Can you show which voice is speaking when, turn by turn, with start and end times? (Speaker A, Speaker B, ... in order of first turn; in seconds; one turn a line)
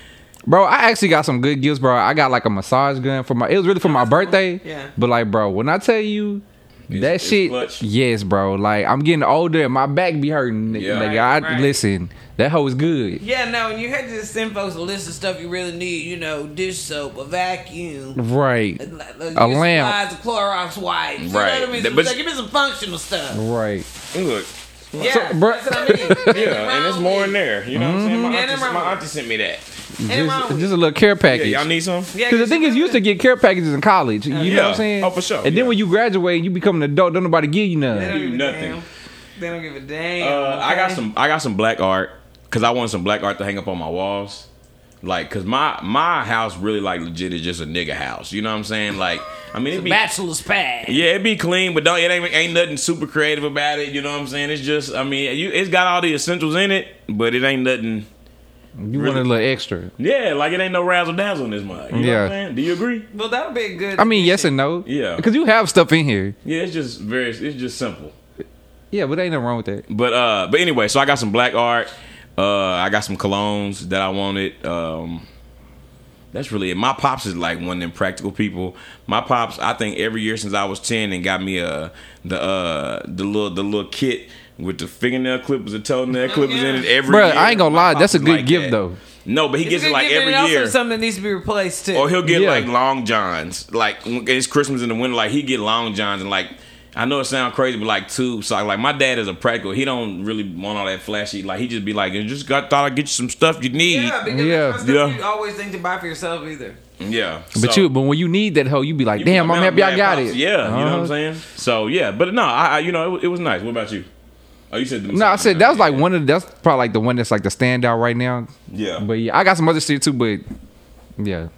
Speaker A: 0.5-13.2
Speaker B: 3.8-4.9
Speaker C: 6.9-7.8
Speaker C: 10.7-11.1
Speaker B: 10.9-11.8
Speaker B: 13.2-18.2
Speaker A: 18.2-18.8
Speaker B: 18.8-23.4
Speaker A: 19.4-20.0
Speaker C: 21.2-22.2
Speaker A: 23.3-23.9
Speaker C: 24.1-25.2
Speaker B: 25.0-27.4
Speaker A: 25.0-26.4
Speaker C: 26.1-29.6
Speaker A: 27.7-28.4
Speaker B: 28.3-29.0
Speaker A: 30.0-31.7
Speaker B: 30.1-30.7
Speaker C: 31.3-32.1
Speaker B: 32.1-33.0
Speaker A: 32.3-38.1
Speaker B: 34.3-34.7
Speaker C: 34.4-35.8
Speaker B: 37.9-38.9
Speaker C: 38.0-38.8
Speaker B: 39.4-41.0
Speaker C: 40.2-44.5
Speaker C: 45.0-50.0
Speaker B: 49.7-51.0
Speaker C: 50.9-58.1
Speaker A: 58.8-59.9
Speaker C: 58.9-59.3
Speaker C: 60.0-63.1
Speaker A: 61.9-62.4
Speaker B: 63.1-64.5
Speaker A: 64.0-66.4
Speaker C: 64.9-65.2
Speaker C: 66.5-68.2
Speaker A: 68.9-69.8
Speaker C: 69.9-75.3
Speaker C: 76.3-90.8
Speaker B: 86.2-86.9
Speaker A: 87.1-89.0
Speaker B: 89.6-92.2
Speaker C: 91.9-104.2
Speaker A: 92.2-92.7
Speaker B: 103.8-106.8
Speaker A: 104.3-104.8
Speaker C: 104.8-105.2
Speaker C: 107.0-107.9
Speaker A: 107.6-111.1
Speaker C: 109.2-114.1
Speaker C: 114.7-116.1
Speaker A: 115.1-120.4
Speaker C: 118.7-119.0
Speaker A: 121.2-121.5